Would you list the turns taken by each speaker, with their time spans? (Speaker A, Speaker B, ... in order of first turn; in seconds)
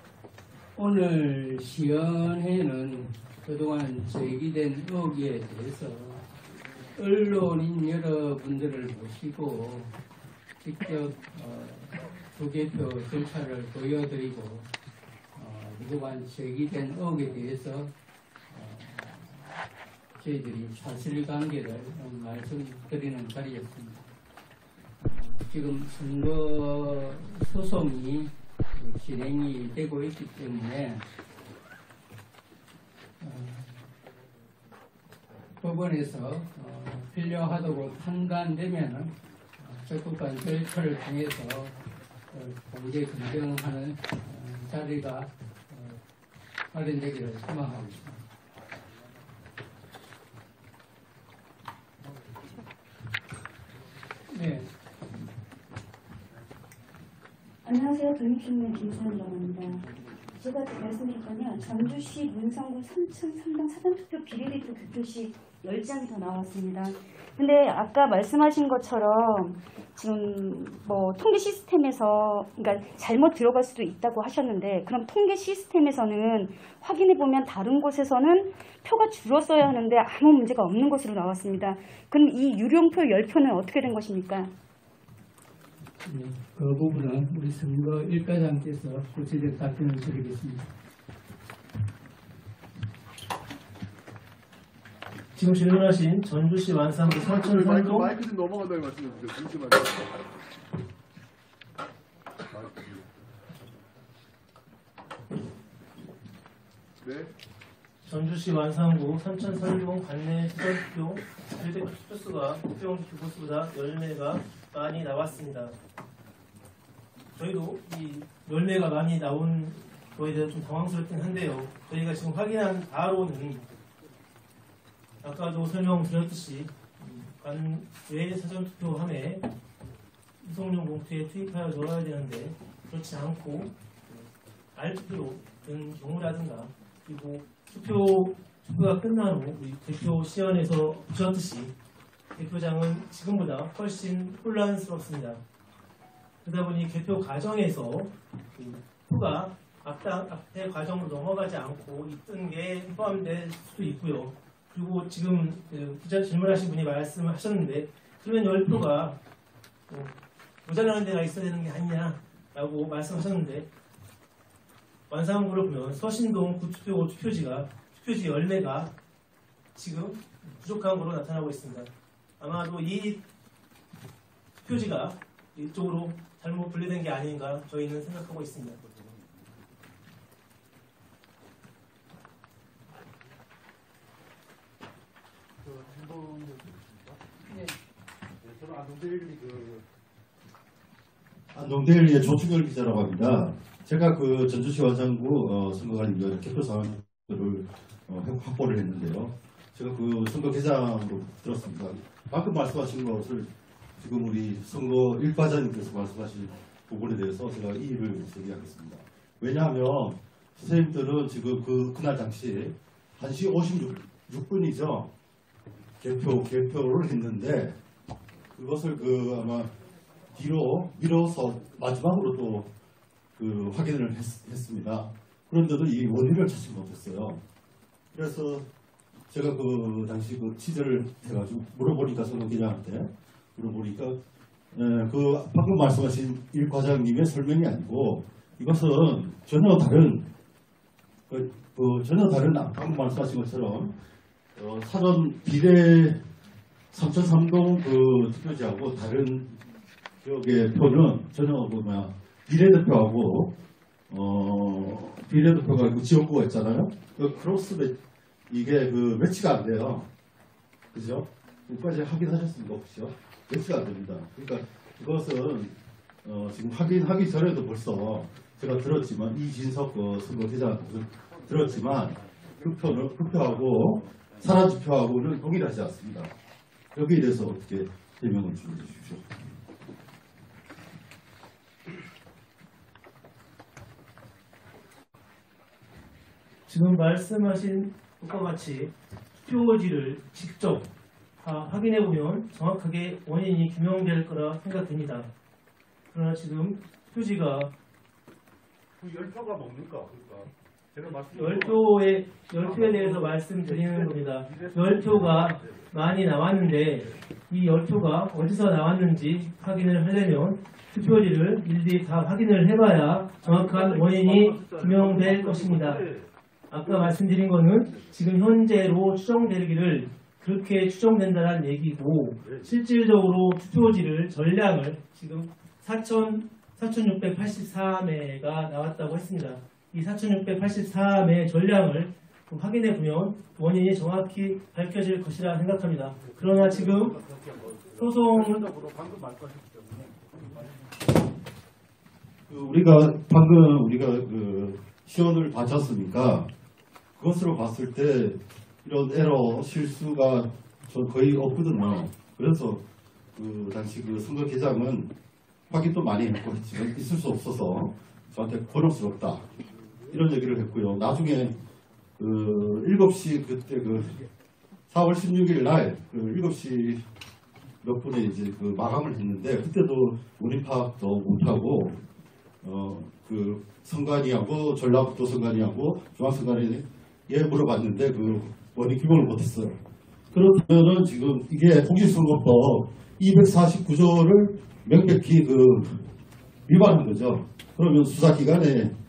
Speaker A: 0.8-6.2, 7.0-10.0, 10.6-14.7, 15.3-17.9, 18.5-19.6, 20.2-24.1, 25.0-31.1, 33.2-33.9, 35.6-41.8, 42.3-46.0, 46.7-48.2, 54.3-54.7, 86.0-90.7
Speaker B: 57.6-59.8, 60.4-84.5
Speaker C: 95.3-98.1, 108.0-115.7, 117.3-123.7, 125.2-129.4, 130.4-133.7, 134.8-141.7, 142.4-145.4, 146.4-159.2, 159.9-160.1, 160.7-163.7, 165.1-168.9, 169.8-173.2, 174.6-178.8, 286.7-290.9, 291.4-295.3, 296.1-297.7, 301.1-316.1, 316.7-337.2, 338.0-338.7
Speaker D: 97.1-100.2, 102.5-103.0, 107.0-107.3, 185.8-186.7, 299.0-301.8, 302.7-305.6, 313.4-316.1, 336.7-337.2, 337.9-339.2
Speaker E: 191.5-215.1, 216.0-217.8, 218.5-219.7, 220.3-222.7, 223.4-227.4, 228.1-228.7, 229.3-234.2, 234.7-240.3, 241.3-244.0, 244.6-246.2, 246.9-249.5, 250.2-253.6, 254.1-258.0, 258.5-260.1, 260.9-276.3, 276.9-279.3, 342.5-346.5, 347.2-352.9, 353.4-355.1, 355.7-359.5, 360.1-361.6, 362.2-364.2, 364.9-367.0, 367.8-372.0, 372.6-379.8, 380.3-386.1, 386.7-388.9